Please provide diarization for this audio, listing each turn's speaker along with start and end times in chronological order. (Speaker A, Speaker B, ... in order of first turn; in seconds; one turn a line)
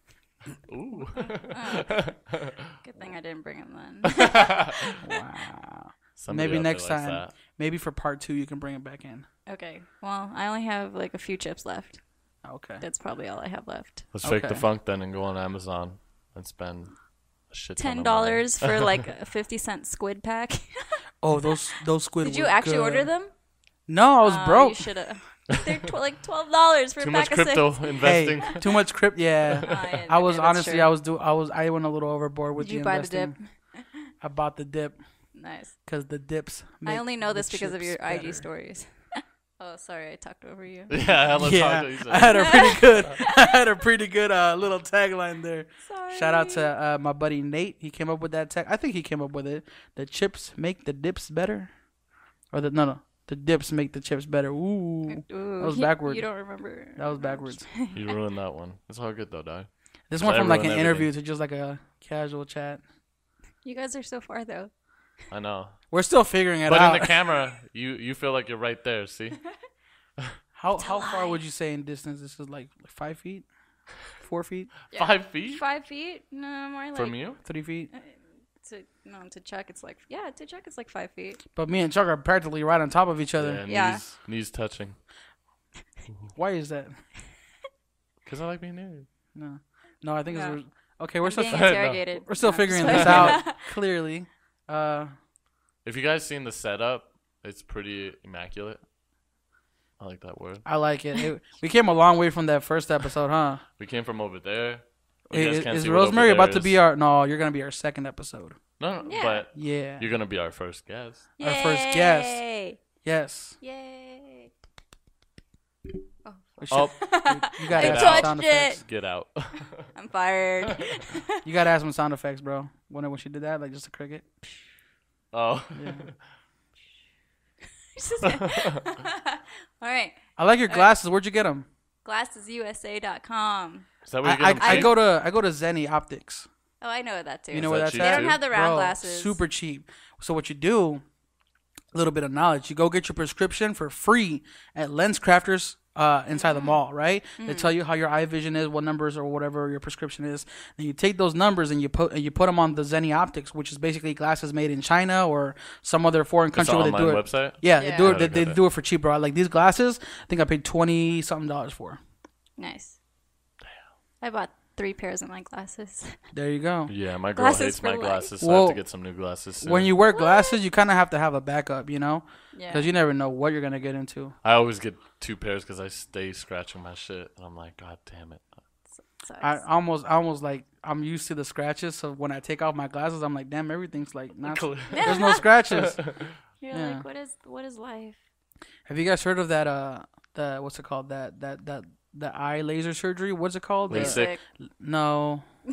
Speaker A: 0.7-2.7
Speaker B: 1.1-2.0
Speaker B: 2.8-4.8
Speaker A: 4.0-5.0
Speaker C: 5.0-9.2
Speaker A: 6.2-7.3
Speaker B: 9.5-12.0
Speaker C: 12.4-12.8
Speaker B: 12.8-14.1
Speaker A: 14.1-16.9
Speaker C: 14.2-14.6
Speaker A: 17.5-18.9
Speaker B: 17.8-21.0
Speaker C: 21.2-23.1
Speaker B: 22.2-23.3
Speaker C: 23.9-24.9
Speaker B: 24.2-27.9
Speaker A: 27.0-28.7
Speaker C: 28.0-33.3
Speaker B: 29.6-30.9
Speaker B: 32.6-33.8
Speaker C: 34.2-35.0
Speaker B: 35.3-35.7
Speaker C: 35.9-38.4
Speaker B: 36.8-41.0
Speaker A: 40.9-42.8
Speaker C: 41.3-51.7
Speaker B: 42.3-43.3
Speaker B: 45.8-46.7
Speaker C: 52.5-56.2
Speaker B: 55.1-58.0
Speaker C: 57.0-57.7
Speaker A: 57.9-61.1
Speaker C: 60.1-62.8
Speaker B: 63.6-64.7
Speaker A: 65.3-65.8
Speaker C: 65.9-67.2
Speaker A: 66.7-69.4
Speaker C: 70.5-73.5
Speaker B: 70.7-71.4
Speaker C: 74.2-74.7
Speaker B: 74.9-77.2
Speaker A: 74.9-75.6
Speaker A: 76.9-77.4
Speaker C: 77.4-77.9
Speaker B: 77.9-81.4
Speaker C: 81.5-83.6
Speaker A: 83.4-85.0
Speaker B: 83.7-84.0
Speaker C: 86.3-86.9
Speaker A: 88.2-89.0
Speaker C: 89.3-95.1
Speaker B: 90.3-90.5
Speaker B: 91.2-93.6
Speaker A: 91.5-92.0
Speaker A: 92.8-93.4
Speaker A: 95.8-98.8
Speaker A: 100.0-100.6
Speaker C: 100.6-103.6
Speaker A: 103.8-106.8
Speaker C: 105.3-108.6
Speaker A: 108.8-111.3
Speaker B: 109.0-109.4
Speaker C: 109.5-110.1
Speaker B: 111.4-112.8
Speaker C: 111.4-112.4
Speaker C: 113.0-113.6
Speaker B: 113.6-114.5
Speaker B: 116.2-118.8
Speaker C: 116.6-118.8
Speaker A: 116.7-119.9
Speaker B: 119.9-121.4
Speaker C: 121.4-124.2
Speaker A: 125.3-126.2
Speaker C: 125.7-126.0
Speaker B: 128.0-130.2
Speaker A: 128.3-128.8
Speaker C: 130.4-131.7
Speaker B: 132.0-133.9
Speaker A: 134.0-134.9
Speaker C: 134.2-136.5
Speaker B: 134.6-134.9
Speaker B: 136.8-139.4
Speaker C: 137.5-141.0
Speaker A: 137.5-138.4
Speaker C: 141.9-162.0
Speaker B: 146.4-146.8
Speaker B: 147.4-147.7
Speaker A: 156.5-158.6
Speaker B: 157.8-158.2
Speaker B: 162.6-163.0
Speaker B: 164.2-166.2
Speaker C: 166.3-166.9
Speaker A: 166.9-169.9
Speaker B: 167.3-168.3
Speaker C: 168.4-168.8
Speaker C: 169.6-174.3
Speaker B: 170.1-170.5
Speaker B: 172.5-172.9
Speaker A: 174.4-178.4
Speaker B: 179.2-179.6
Speaker C: 179.4-186.0
Speaker A: 184.4-186.3
Speaker B: 184.9-185.4
Speaker B: 186.6-188.2
Speaker C: 186.7-187.0
Speaker C: 188.9-194.2
Speaker A: 193.9-194.3
Speaker B: 193.9-194.4
Speaker C: 194.8-195.4